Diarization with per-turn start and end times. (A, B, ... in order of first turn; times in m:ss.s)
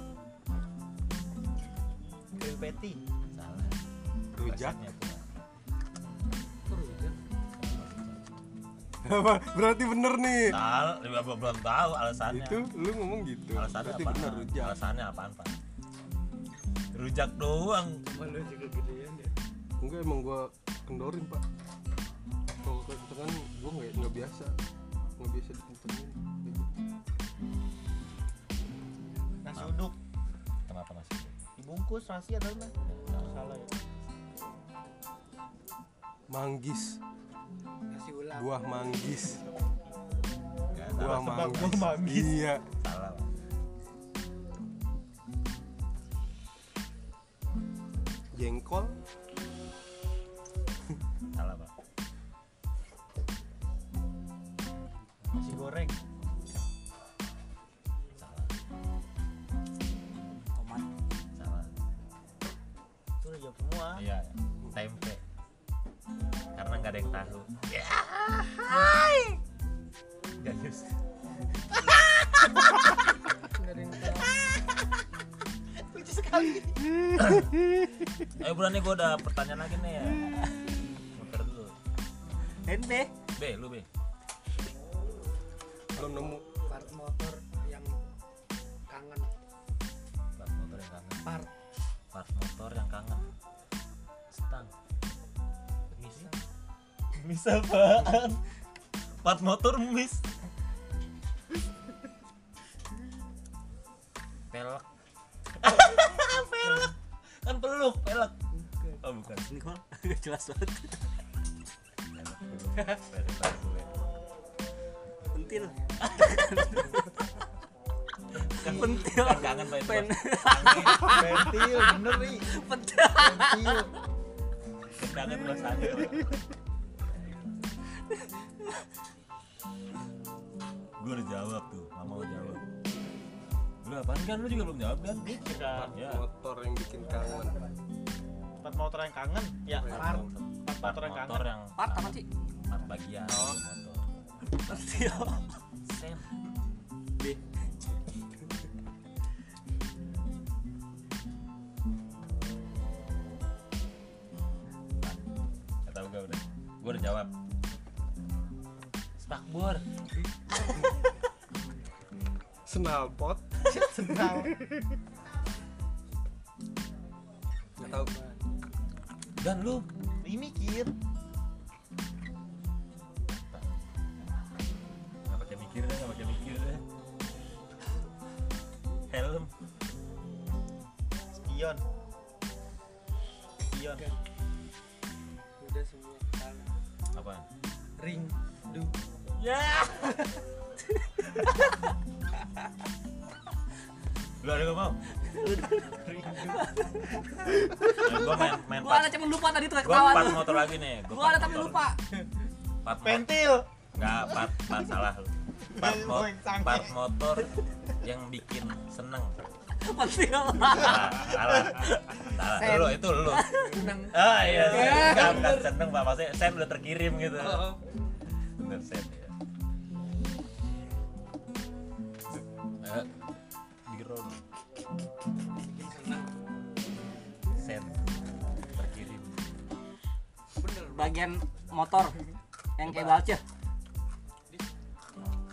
0:02.4-0:03.0 A
0:03.3-0:03.8 B
0:04.4-0:04.8 C
0:04.4-0:05.2 B
0:06.7-0:07.2 D
0:07.6-0:08.3 B
0:09.0-0:10.6 C
0:10.5-0:12.7 B
0:12.3-0:14.8 C
0:13.5-0:15.6 B
0:16.9-0:18.0 B
0:18.0-0:19.3 D
0:19.8-0:21.4 C
0:22.6-0:24.5 C
0:25.2-0:26.8 C
0:29.4-0:29.9 A
0:29.6-0:29.8 B
0:30.7-0:31.4 B
0:31.6-0:33.7 A
0:32.8-0:33.4 B
0:36.3-0:37.0 C
0:37.9-0:38.6 D
0:38.3-0:39.4 C
0:40.7-0:41.9 B
0:40.9-0:42.6 C
0:41.1-0:42.5 A
0:42.8-0:43.5 B
0:48.3-0:49.0 C
0:51.3-0:51.7 B
0:55.3-0:56.0 A
0:58.2-0:58.5 B
1:00.6-1:00.9 E
1:01.4-1:01.7 B
1:03.2-1:04.0 A
1:03.9-1:05.2 B
1:06.5-1:09.4 B
1:10.4-1:10.9 B
1:13.4-1:14.3 D
1:15.9-1:16.9 A
1:18.4-1:20.3 B
1:21.1-1:21.7 B
1:22.7-1:23.1 E
1:23.4-1:23.9 B
1:26.0-1:26.4 C
1:26.6-1:28.0 D
1:28.9-1:29.3 D
1:30.4-1:31.2 B
1:31.2-1:31.5 D
1:32.1-1:33.3 B
1:34.3-1:34.7 B
1:36.0-1:36.3 A
1:36.0-1:36.4 D
1:37.2-1:38.4 B
1:39.2-1:40.2 B
1:44.5-1:44.8 B
1:45.6-1:48.3 B
1:49.0-1:49.5 B
1:49.5-1:51.0 E
1:52.1-1:53.9 B
1:55.3-1:57.0 E
1:58.4-2:01.1 B
1:58.6-2:01.9 E
2:00.7-2:02.5 A
2:02.5-2:03.8 E
2:03.2-2:03.9 A
2:05.0-2:06.4 B
2:11.0-2:12.6 B
2:13.8-2:15.4 B
2:15.2-2:15.9 A
2:15.7-2:17.6 C
2:15.9-2:16.2 B
2:18.6-2:21.5 A
2:19.8-2:20.3 C
2:19.9-2:24.0 B
2:21.8-2:22.2 E
2:23.3-2:23.6 C
2:24.5-2:25.6 E
2:25.8-2:26.3 B
2:35.8-2:37.3 B
2:39.2-2:39.8 B
2:42.6-2:44.8 C
2:43.6-2:44.6 A
2:47.8-2:48.4 D
2:47.8-2:48.1 C
2:49.4-2:49.8 B
2:50.2-2:50.9 A
2:53.3-2:53.8 B
2:55.3-2:56.8 B
2:59.1-2:59.5 B
3:01.3-3:01.8 A
3:03.7-3:04.0 B
3:05.6-3:06.7 D
3:07.1-3:07.4 B
3:08.0-3:08.9 D
3:09.4-3:10.2 B
3:14.4-3:15.0 B
3:15.3-3:15.9 E
3:16.0-3:16.6 D
3:16.6-3:22.0 E
3:17.8-3:21.8 B
3:22.8-3:27.5 B
3:23.0-3:23.6 A
3:25.7-3:27.0 A
3:28.0-3:29.4 B
3:29.8-3:31.1 E
3:30.6-3:37.8 B
3:32.6-3:33.7 E
3:33.7-3:35.7 D
3:37.4-3:37.8 D
3:38.6-3:39.3 B
3:42.8-3:43.1 B
3:43.9-3:44.4 B
3:45.6-3:46.4 D
3:47.5-3:48.1 B
3:48.7-3:49.4 B
3:50.6-3:51.3 D
3:51.2-3:52.1 E
3:52.8-3:53.4 E
3:52.8-3:53.2 B